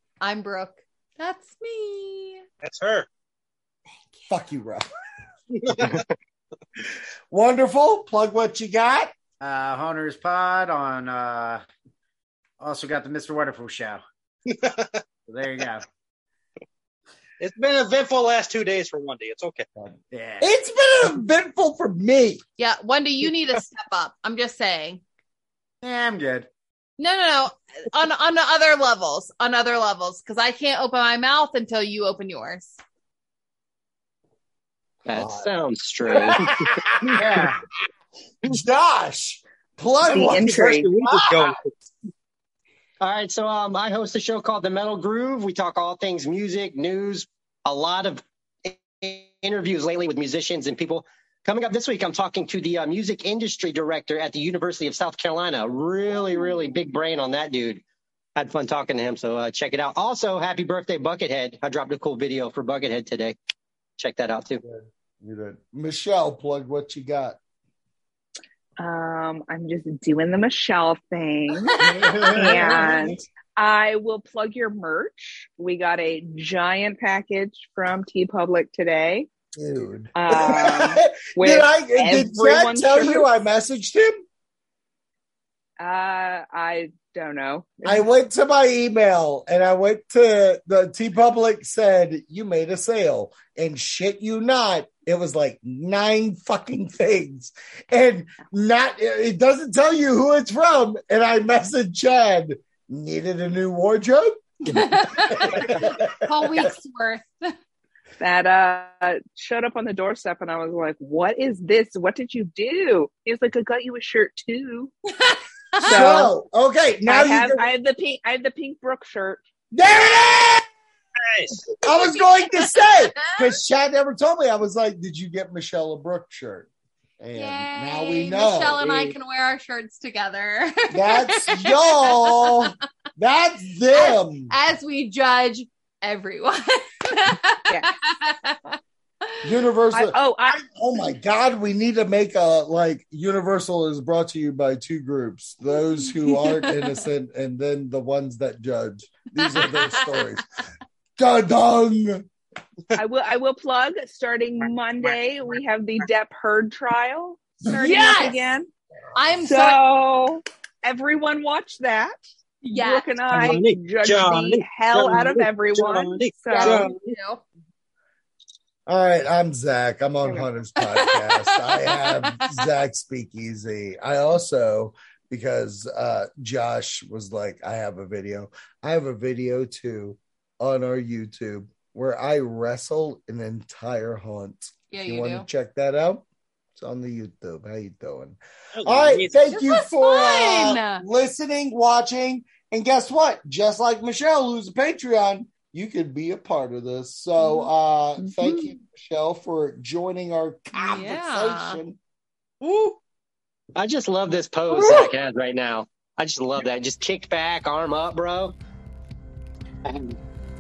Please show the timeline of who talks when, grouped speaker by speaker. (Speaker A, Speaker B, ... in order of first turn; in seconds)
Speaker A: 0.2-2.4, 22.6-25.0, 27.0-32.8, 104.7-107.5, 115.2-116.2, 127.3-132.7, 133.9-138.8, 146.2-146.9, 149.4-150.2, 157.8-158.4, 159.2-159.8, 162.6-163.5, 166.5-167.4, 170.8-172.6, 184.9-185.4, 189.5-191.0, 197.4-197.7, 200.7-201.8
Speaker B: 2.6-3.1, 5.5-6.0, 14.5-15.0, 17.4-19.7, 40.2-41.7, 121.3-121.6, 163.3-166.9, 188.8-189.4
Speaker C: 4.3-4.9, 7.3-9.1, 19.8-22.4, 35.1-35.5, 36.1-37.6, 38.4-41.6, 64.6-67.4, 71.7-73.2, 79.6-84.2, 87.8-106.7, 115.8-117.7, 119.7-120.7, 121.7-126.7, 127.2-129.1, 130.9-134.5, 139.4-150.4, 151.2-152.3, 168.9-186.2, 186.8-202.0, 204.7-205.1
Speaker D: 9.4-11.6, 12.6-14.0, 15.3-15.8, 20.1-20.5, 25.8-26.5, 37.1-37.6
Speaker E: 35.1-36.5, 43.0-57.8, 58.4-63.4, 64.0-64.6, 203.7-208.6, 209.8-210.2
Speaker F: 40.1-40.9, 68.8-79.3, 80.2-83.3, 85.8-88.0, 108.2-114.9, 115.8-116.3, 117.1-119.4, 139.9-140.6, 152.9-158.7, 159.4-166.9, 170.2-170.5